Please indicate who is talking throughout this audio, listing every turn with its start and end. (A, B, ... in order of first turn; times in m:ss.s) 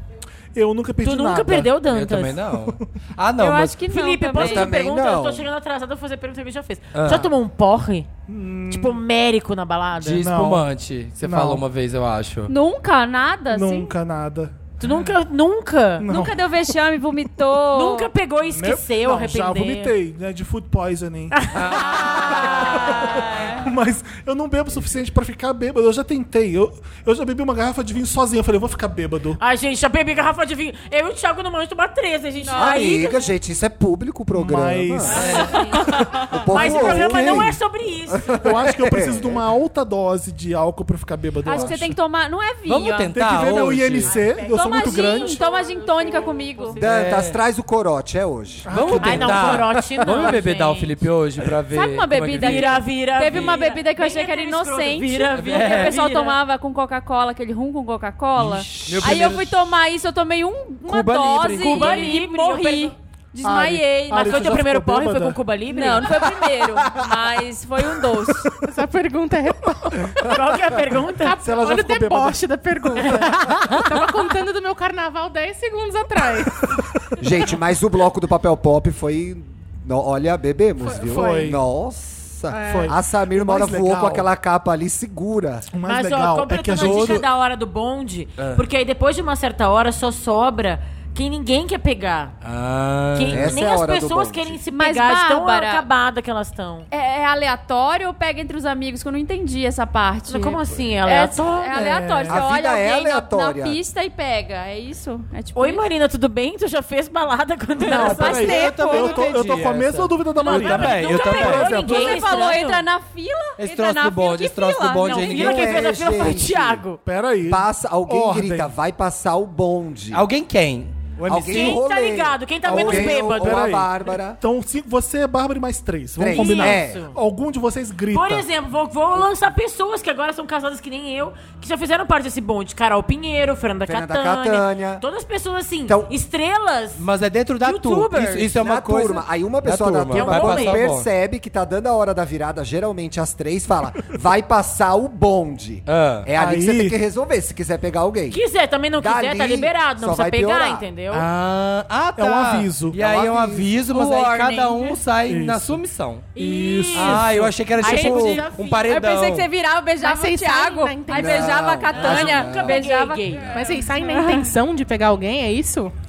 0:00.5-0:01.7 A
0:01.0-0:02.4 B
0:01.9-0:03.8 C
0:03.4-0:04.8 D
0:03.9-0:08.1 B
0:04.4-0:05.5 E
0:06.9-0:07.3 C
0:08.3-0:09.0 A
0:08.7-0:10.3 B
0:10.0-0:12.5 C
0:10.2-0:10.7 A
0:11.2-0:11.6 A
0:12.5-0:13.9 D
0:13.5-0:15.2 A
0:14.8-0:16.0 B
0:16.0-0:16.5 A
0:16.0-0:18.1 D
0:17.7-0:20.0 B
0:18.5-0:29.4 A
0:21.6-0:22.1 C
0:21.7-0:23.7 D
0:29.4-0:33.3 B
0:32.4-0:33.1 D
0:32.5-0:35.2 E
0:34.3-0:37.4 A
0:35.1-0:37.0 D
0:35.1-0:35.6 C
0:36.3-0:37.6 E
0:36.4-0:38.4 B
0:38.2-0:39.5 E
0:38.4-0:42.0 A
0:41.4-0:43.2 D
0:42.7-0:44.1 C
0:43.1-0:45.4 A
0:44.0-0:46.8 B
0:44.4-0:46.8 D
0:46.8-0:48.7 E
0:46.8-0:47.4 C
0:48.7-0:49.7 A
0:48.7-0:53.6 C
0:49.0-0:51.0 B
0:50.1-0:50.5 D
0:51.7-1:04.6 D
0:52.4-0:56.4 B
0:55.3-0:56.0 C
0:58.4-0:59.2 A
0:58.7-0:59.6 C
1:00.8-1:02.0 C
1:01.6-1:03.0 B
1:03.4-1:05.4 A
1:04.1-1:06.2 B
1:05.7-1:08.7 D
1:08.6-1:10.1 F
1:10.2-1:11.4 B
1:11.2-1:16.7 F
1:11.4-1:12.4 A
1:13.0-1:13.8 B
1:17.2-1:25.7 E
1:20.8-1:21.5 F
1:21.0-1:21.6 A
1:22.5-1:23.0 F
1:22.6-1:24.3 A
1:25.7-1:27.3 A
1:25.8-1:32.3 B
1:26.8-1:27.2 C
1:28.4-1:28.6 C
1:32.4-1:33.6 C
1:33.1-1:36.9 B
1:33.3-1:34.6 E
1:34.7-1:35.9 D
1:36.9-1:45.9 D
1:40.3-1:41.8 B
1:41.7-1:42.4 A
1:41.8-1:42.1 C
1:42.3-1:43.8 E
1:45.6-1:48.5 B
1:47.8-1:52.2 A
1:47.8-1:49.3 D
1:48.4-1:51.7 C
1:50.4-1:55.6 D
1:50.5-1:52.8 B
1:53.6-1:55.8 C
1:55.0-1:57.0 B
1:55.3-1:56.8 E
1:57.0-1:58.7 A
1:57.4-2:00.2 E
2:00.1-2:01.8 C
2:01.3-2:04.4 E
2:01.4-2:03.7 B
2:02.6-2:08.5 A
2:06.2-2:07.1 E
2:06.3-2:07.2 B
2:08.1-2:17.0 B
2:13.9-2:15.0 E
2:15.9-2:16.1 E
2:17.0-2:21.1 C
2:17.6-2:18.5 B
2:18.6-2:28.4 E
2:20.1-2:20.8 B
2:25.9-2:26.3 C
2:26.4-2:27.0 A
2:28.3-2:31.3 B
2:29.0-2:30.8 E
2:31.1-2:36.3 C
2:32.2-2:33.7 A
2:33.9-2:35.0 D
2:35.3-2:35.8 A
2:36.4-2:37.5 A
2:36.4-2:39.0 B
2:36.9-2:39.5 C
2:37.8-2:44.6 D
2:40.0-2:41.7 F
2:41.1-2:42.8 E
2:41.9-2:43.6 B
2:43.5-2:45.9 F